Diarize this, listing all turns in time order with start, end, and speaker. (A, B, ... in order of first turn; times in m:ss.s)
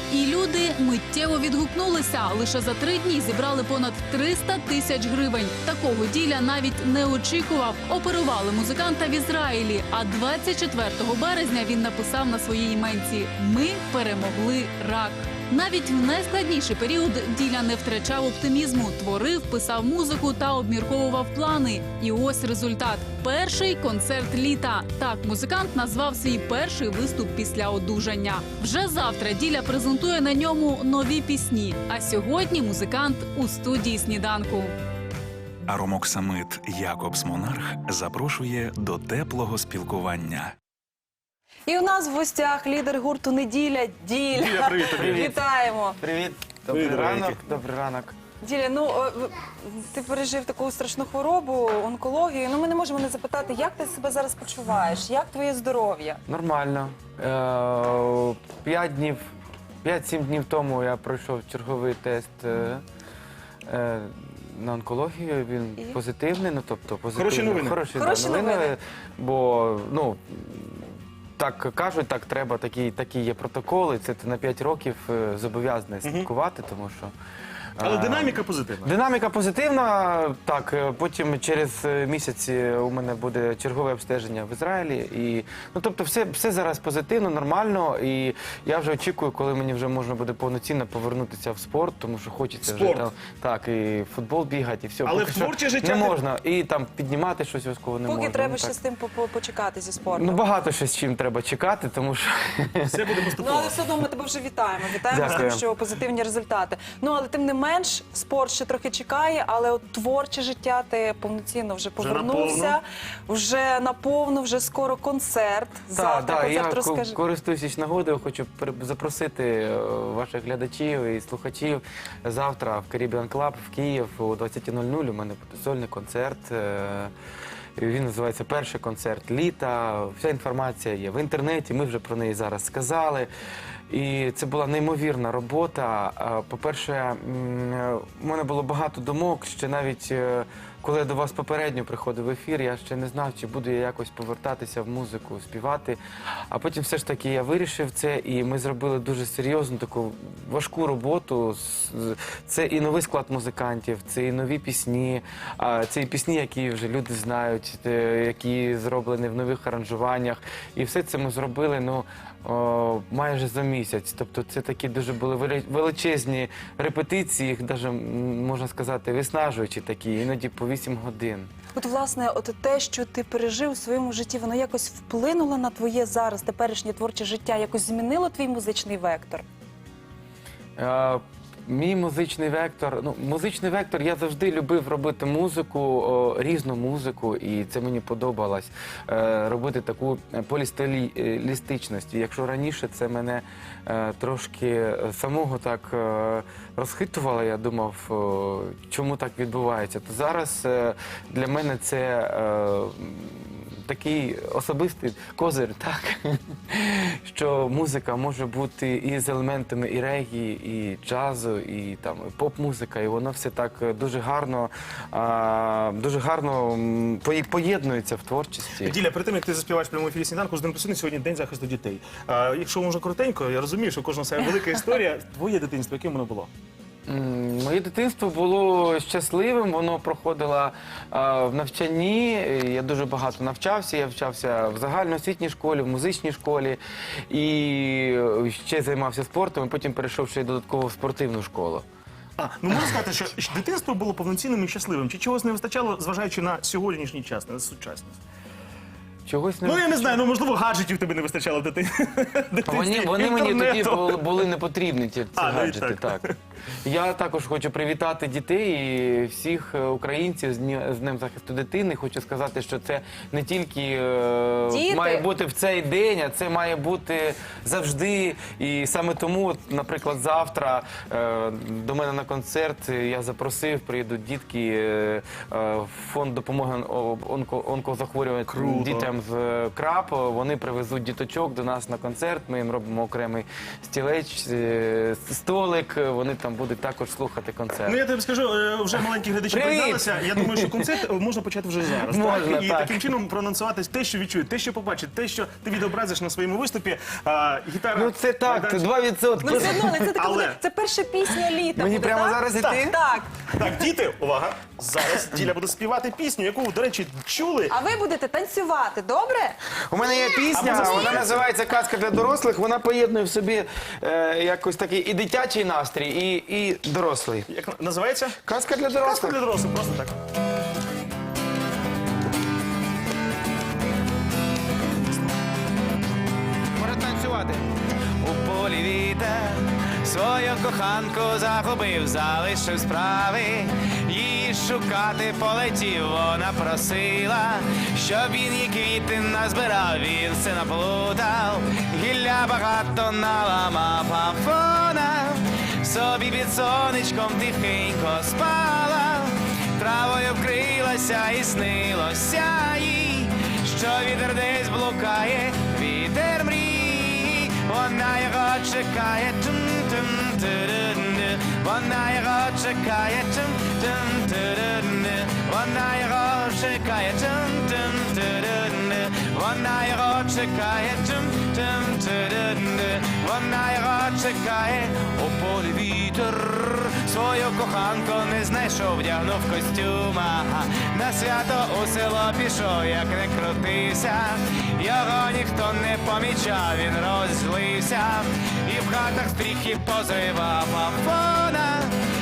0:00.1-0:34.7 A
0:35.6-0:40.5 B
0:41.7-0:46.0 C
0:44.3-0:45.3 D
0:45.0-0:45.4 E
0:46.0-0:48.2 E
0:46.7-0:47.4 D
0:48.4-0:56.2 C
0:56.2-0:59.2 E
0:59.8-1:02.8 E
1:03.7-1:17.1 E
1:07.1-1:07.8 D
1:07.9-1:08.7 C
1:16.0-1:16.3 D
1:17.8-1:38.8 E
1:17.8-1:18.9 D
1:32.6-1:33.1 D
1:35.0-1:36.2 D
1:38.0-1:40.4 C
1:40.0-1:43.0 E
1:42.9-1:43.8 D
1:43.4-1:57.2 C
1:45.1-1:45.6 E
1:52.0-1:52.8 D
1:55.9-2:07.1 E
2:07.8-2:13.3 E
2:13.9-2:26.0 E
2:26.5-2:51.5 E
2:51.8-2:59.4 C
3:00.8-3:39.0 E
3:38.8-3:46.5 D
3:47.1-4:01.8 E
4:02.4-4:08.2 D
4:09.2-4:10.2 E
4:09.6-4:14.4 D
4:12.7-4:16.2 E
4:15.4-4:16.3 D
4:16.8-4:48.0 E
4:24.7-4:25.2 C
4:38.5-4:39.1 D
4:47.8-4:58.9 D
4:49.5-4:50.8 E
4:52.1-4:53.0 E
4:57.9-5:00.1 E
4:59.4-5:03.5 C
4:59.4-5:00.6 D
5:01.8-5:02.9 E
5:03.5-5:07.8 D
5:07.7-5:09.6 C
5:09.9-5:17.4 E
5:10.5-5:11.4 D
5:17.5-5:18.4 D
5:18.4-5:19.4 E
5:18.9-5:20.1 D
5:26.8-5:27.6 E
5:28.2-5:29.4 F
5:30.0-5:45.3 F
5:42.3-5:42.7 E
5:45.8-5:49.1 F
5:45.9-5:46.3 E
5:48.0-5:49.1 E
5:49.8-5:56.7 F
5:49.8-5:53.9 E
5:54.5-6:03.9 E
5:57.5-6:00.6 F
6:01.4-6:24.2 F
6:04.6-6:05.5 E
6:06.1-6:06.6 E
6:07.6-6:09.3 E
6:10.0-6:10.5 E
6:11.2-6:11.5 E
6:12.4-6:14.2 E
6:14.8-6:15.5 E
6:16.3-6:17.6 E
6:18.4-6:22.6 E
6:23.6-6:24.3 E
6:24.8-6:31.7 F
6:24.8-6:27.9 E
6:28.9-6:31.6 E